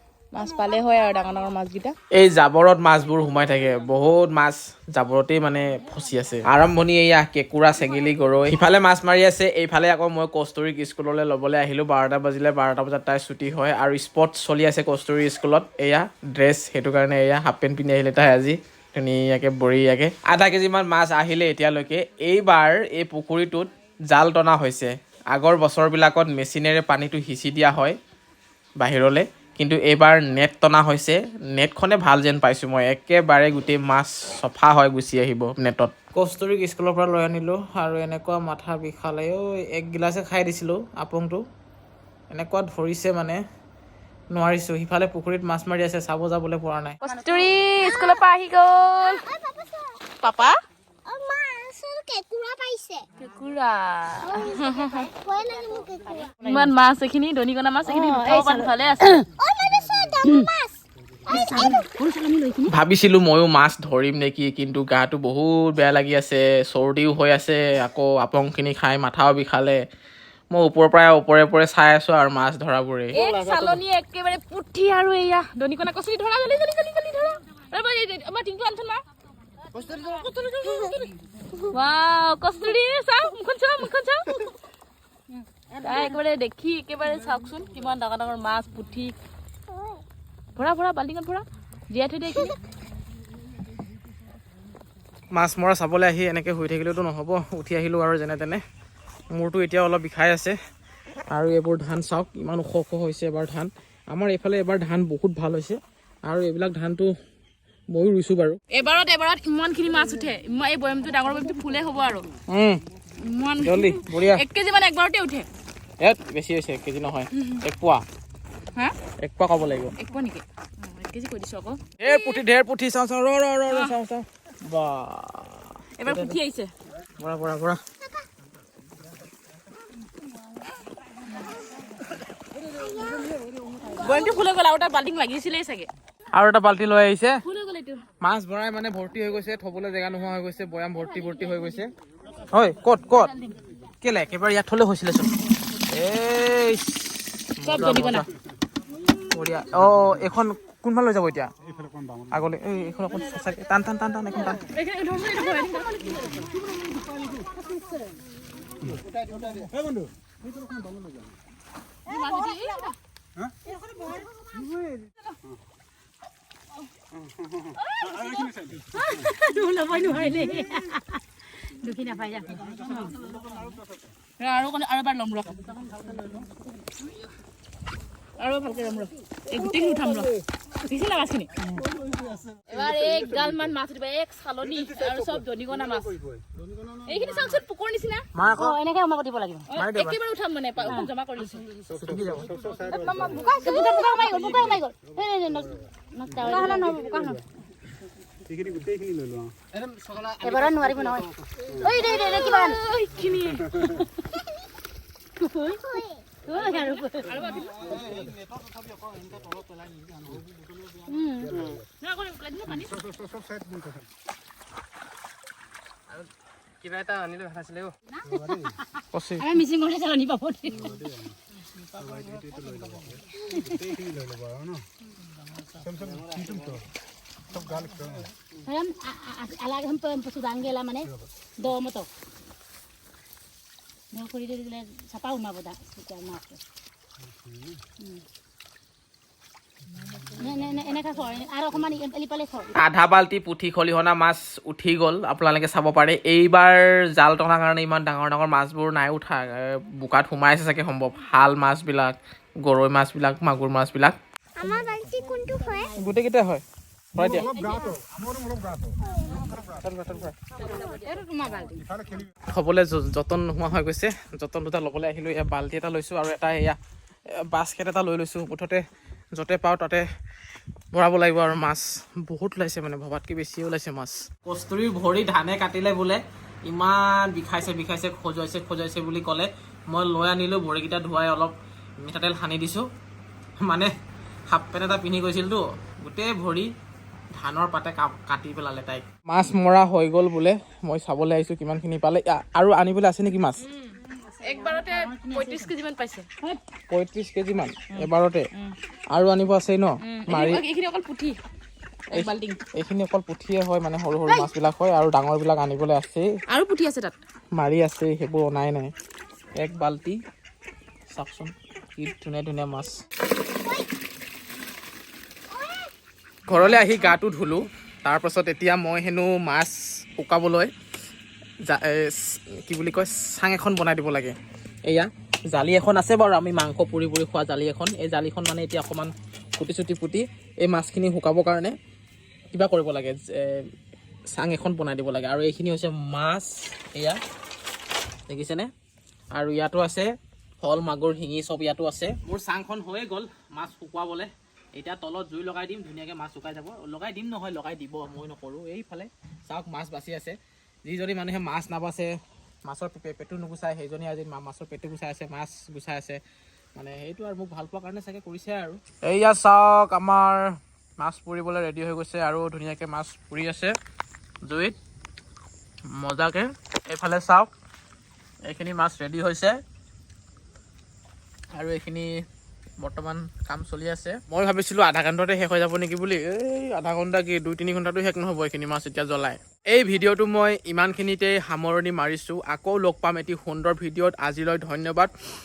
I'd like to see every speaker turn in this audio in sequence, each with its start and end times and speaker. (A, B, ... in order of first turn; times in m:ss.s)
0:00.3-0:01.9 A
0:02.1-0:28.0 B
0:28.8-0:41.4 B
0:42.3-0:43.4 B
0:44.3-0:47.0 B
0:47.0-0:49.2 A
0:47.8-0:48.2 C
0:49.0-0:50.0 C
0:50.2-0:50.6 A
0:51.0-0:53.0 C
0:53.2-0:55.1 A
0:54.3-0:56.4 C
0:56.4-0:59.2 A
0:57.8-0:59.2 D
0:59.4-1:01.9 C
1:00.2-1:00.5 D
1:01.3-1:02.7 D
1:02.7-1:09.8 B
1:10.5-1:13.6 B
1:13.1-1:19.0 A
1:19.8-1:21.1 A
1:21.7-1:24.5 A
1:25.7-1:26.2 D
1:25.8-1:29.2 A
1:30.6-1:32.6 A
1:35.3-1:38.6 B
1:39.3-1:40.6 B
1:41.3-1:47.1 B
1:47.9-1:48.6 B
1:48.7-1:52.3 A
1:52.5-1:52.8 B
1:53.1-1:55.5 A
1:53.6-1:54.4 B
1:56.0-1:58.0 B
1:59.2-1:59.9 B
2:00.0-2:02.4 A
2:02.0-2:06.4 B
2:03.7-2:03.9 A
2:06.0-2:06.7 A
2:07.2-2:07.8 B
2:12.8-2:13.2 C
2:13.9-2:15.9 A
2:16.3-2:17.4 B
2:17.4-2:18.0 A
2:18.2-2:21.9 B
2:22.5-2:23.3 B
2:24.0-2:28.3 B
2:27.6-2:28.2 A
2:29.3-2:31.5 B
2:32.3-2:34.6 B
2:34.5-2:36.5 A
2:42.0-2:43.0 A
2:47.8-2:50.7 A
2:49.2-2:52.9 D
2:52.8-2:53.1 A
2:54.4-2:55.7 A
2:58.4-3:01.5 A
3:02.7-3:06.2 A
3:07.0-3:08.3 A
3:08.3-3:08.8 B
3:08.5-3:09.7 D
3:09.7-3:11.7 A
3:09.7-3:10.2 B
3:11.9-3:12.5 B
3:12.5-3:13.2 C
3:12.9-3:14.8 A
3:13.3-3:17.4 D
3:16.4-3:16.9 A
3:18.7-3:19.3 C
3:20.4-3:22.8 D
3:21.8-3:24.1 A
3:25.4-3:28.2 D
3:26.5-3:28.1 A
3:31.0-3:31.8 D
3:32.0-3:32.9 A
3:38.3-3:38.8 D
3:39.1-3:39.5 B
3:39.4-3:41.0 D
3:43.4-3:43.9 D
3:46.1-3:46.8 C
3:48.6-3:52.1 D
3:54.1-3:56.6 D
4:00.3-4:02.7 D
4:02.7-4:14.2 B
4:14.6-4:15.9 C
4:15.9-4:17.5 B
4:17.3-4:18.0 C
4:17.6-4:18.0 D
4:19.1-4:19.6 D
4:19.8-4:20.4 B
4:20.6-4:21.9 D
4:22.5-4:26.8 B
4:27.4-4:28.8 B
4:29.4-4:30.0 B
4:30.9-4:42.9 B
4:43.6-4:43.9 B
4:44.5-4:46.7 B
4:47.3-4:53.6 B
4:53.6-4:56.3 A
4:56.9-4:58.4 B
4:57.9-4:58.8 A
4:59.1-5:00.6 B
5:00.0-5:01.4 A
5:02.1-5:02.6 A
5:02.1-5:06.2 B
5:06.5-5:07.2 A
5:07.5-5:08.9 B
5:09.6-5:10.2 B
5:11.1-5:13.0 B
5:15.5-5:15.9 C
5:16.5-5:20.7 B
5:16.5-5:16.8 A
5:21.6-5:24.3 B
5:24.8-5:31.7 B
5:32.5-5:33.6 B
5:34.3-5:37.2 B
5:38.3-5:38.7 B
5:39.3-5:52.1 B
5:52.6-5:56.2 B
5:56.8-6:03.8 B
6:04.4-6:04.8 B
6:05.9-6:07.5 B
6:08.4-6:09.6 B
6:11.5-6:12.1 B
6:12.8-6:25.1 B